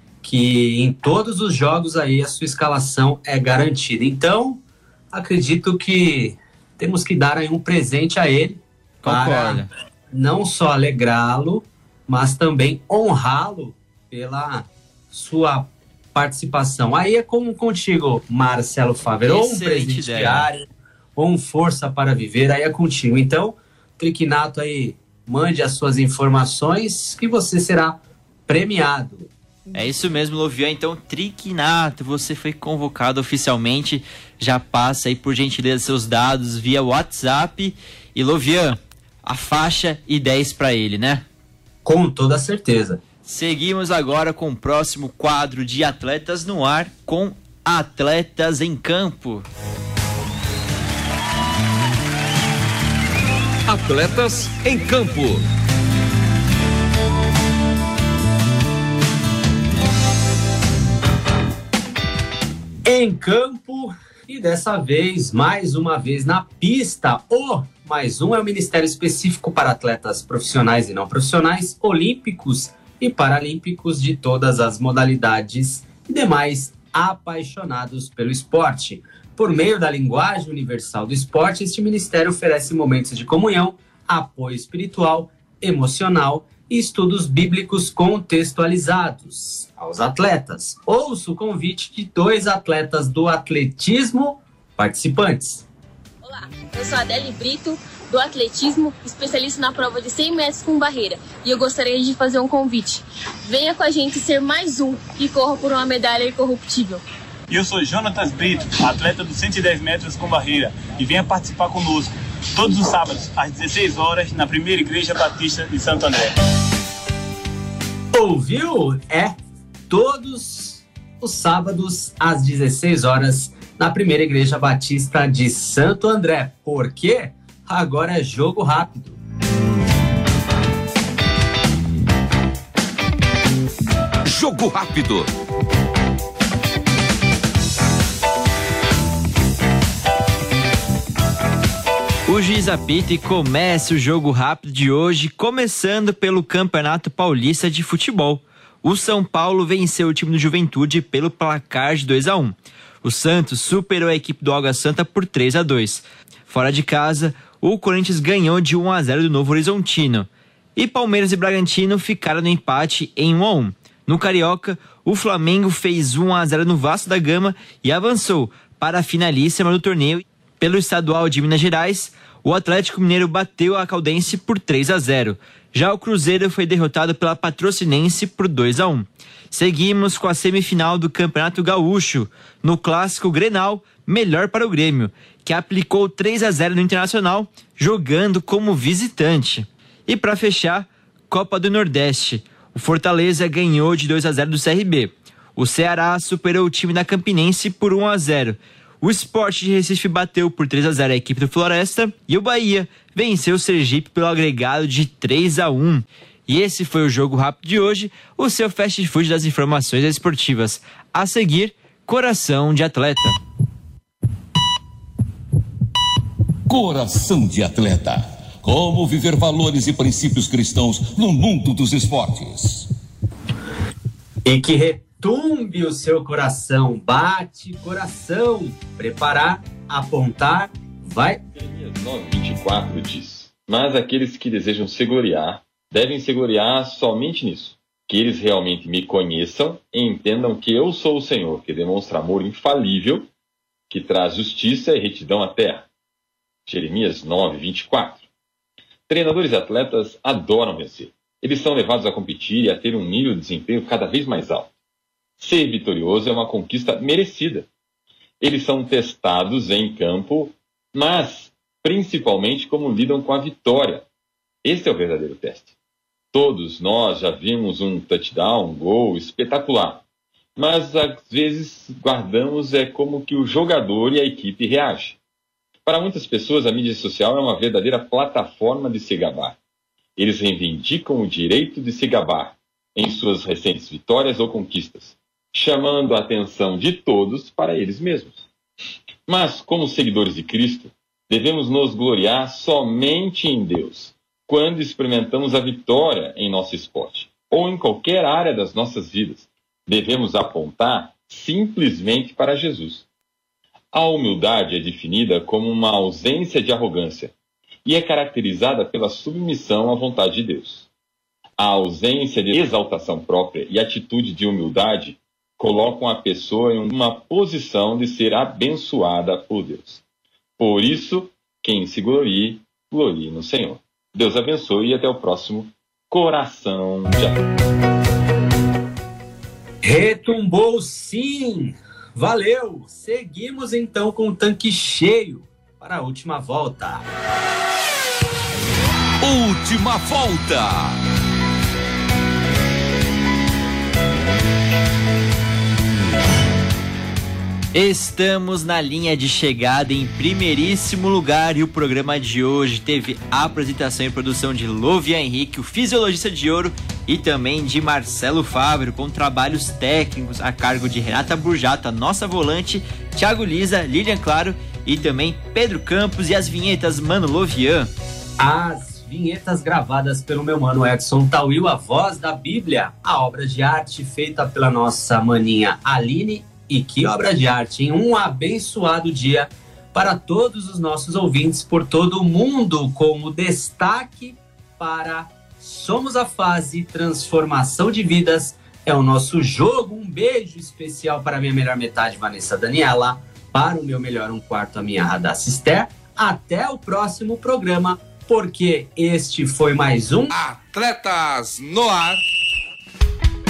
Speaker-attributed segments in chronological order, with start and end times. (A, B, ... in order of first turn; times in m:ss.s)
0:00.2-0:20.6 A
0:09.0-0:09.7 B
0:19.2-0:20.5 B
0:21.2-0:29.3 A
0:29.7-0:41.2 B
0:41.8-0:43.0 A
0:43.2-0:49.5 B
0:53.7-0:55.4 C
1:02.8-1:35.6 A
1:36.2-1:47.0 D
1:47.5-1:56.4 E
1:58.1-1:59.4 A
1:59.9-2:09.2 A
2:14.2-2:15.3 C
2:22.3-3:33.4 B
3:36.7-3:42.9 C
3:44.4-3:51.4 A
3:51.6-4:03.3 F
4:03.9-4:05.9 F
4:06.6-4:08.3 F
4:09.1-4:14.7 F
4:15.4-4:17.7 F
4:18.4-4:24.0 F
4:24.6-4:25.7 F
4:26.3-4:30.0 F
4:30.6-4:35.2 F
4:35.8-4:39.6 F
4:40.2-4:48.5 F
4:49.3-5:03.0 F
5:03.9-5:07.3 F
5:07.8-5:10.9 F
5:11.6-5:20.0 F
5:20.6-5:27.4 F
5:29.8-5:37.0 A
5:39.2-5:41.0 C
5:47.7-6:07.9 B
6:08.4-6:40.3 A
6:40.3-6:42.2 C